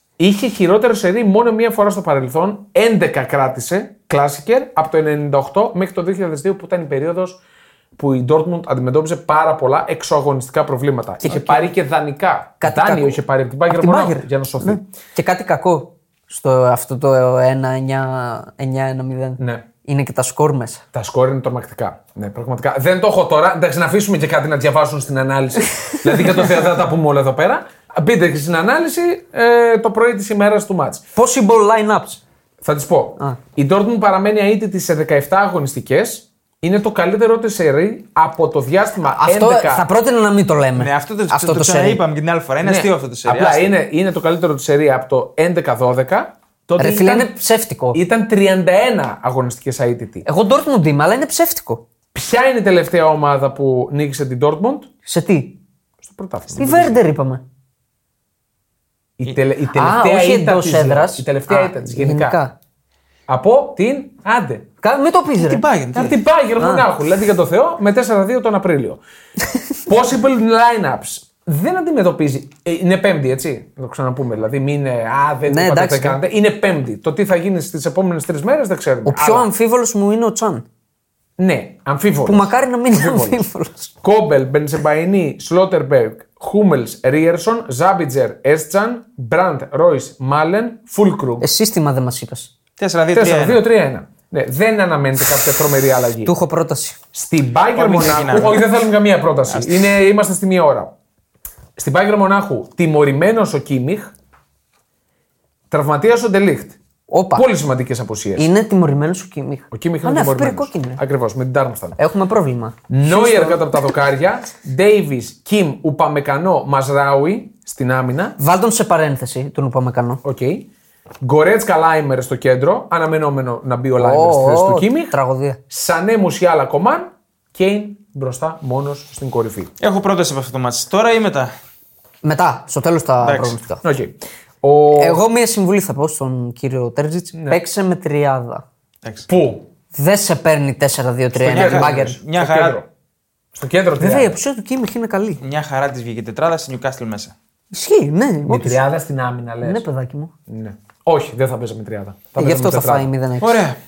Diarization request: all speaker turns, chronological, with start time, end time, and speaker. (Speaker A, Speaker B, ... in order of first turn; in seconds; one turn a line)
Speaker A: 0.2-7.4
Speaker A: 8.0-14.8
Speaker B: 11.2-11.6
Speaker C: 11.2-11.7
Speaker B: 12.6-20.8
Speaker A: 19.4-19.6
Speaker A: 20.9-31.0
Speaker B: 31.2-32.2
Speaker A: 32.6-39.9
Speaker B: 39.1-42.0
Speaker C: 40.8-43.7
Speaker A: 42.6-47.3
Speaker B: 46.8-48.0
Speaker A: 47.9-50.3
Speaker B: 50.2-51.8
Speaker A: 52.1-54.9
Speaker B: 55.1-55.6
Speaker A: 56.0-57.0
Speaker B: 56.6-57.4
Speaker A: 59.2-62.4
Speaker B: 59.7-62.5
Speaker A: 63.3-64.7
Speaker B: 64.8-65.6
Speaker C: 65.4-66.2
Speaker A: 65.9-69.0
Speaker B: 66.6-66.9
Speaker A: 69.9-79.5
Speaker B: 75.5-76.2
Speaker B: 79.0-80.7
Speaker A: 81.4-83.4
Speaker B: 82.2-83.9
Speaker A: 84.0-91.5
Speaker B: 91.4-92.5
Speaker C: 92.8-93.6
Speaker A: 93.1-96.3
Speaker B: 96.2-97.0
Speaker A: 97.1-100.9
Speaker C: 97.7-98.7
Speaker C: 99.5-99.8
Speaker A: 101.8-104.1
Speaker A: 105.7-106.8
Speaker B: 107.1-107.5
Speaker A: 107.3-108.5
Speaker B: 108.4-111.0
Speaker A: 109.7-112.0
Speaker B: 112.0-113.8
Speaker A: 112.9-118.4
Speaker B: 118.4-120.2
Speaker A: 120.2-120.7
Speaker A: 121.2-125.2
Speaker B: 124.0-125.6
Speaker A: 125.7-129.7
Speaker C: 129.8-131.5
Speaker B: 132.2-133.8
Speaker C: 133.2-133.6
Speaker A: 133.8-135.2
Speaker B: 135.0-138.6
Speaker A: 139.3-139.7
Speaker B: 139.9-142.2
Speaker C: 141.4-142.8
Speaker A: 141.4-142.9
Speaker A: 143.5-144.4
Speaker B: 144.0-145.4
Speaker C: 145.4-147.3
Speaker B: 147.7-148.8
Speaker A: 148.5-149.8
Speaker B: 149.6-150.3
Speaker A: 150.5-153.1
Speaker B: 152.4-153.6
Speaker C: 153.4-153.8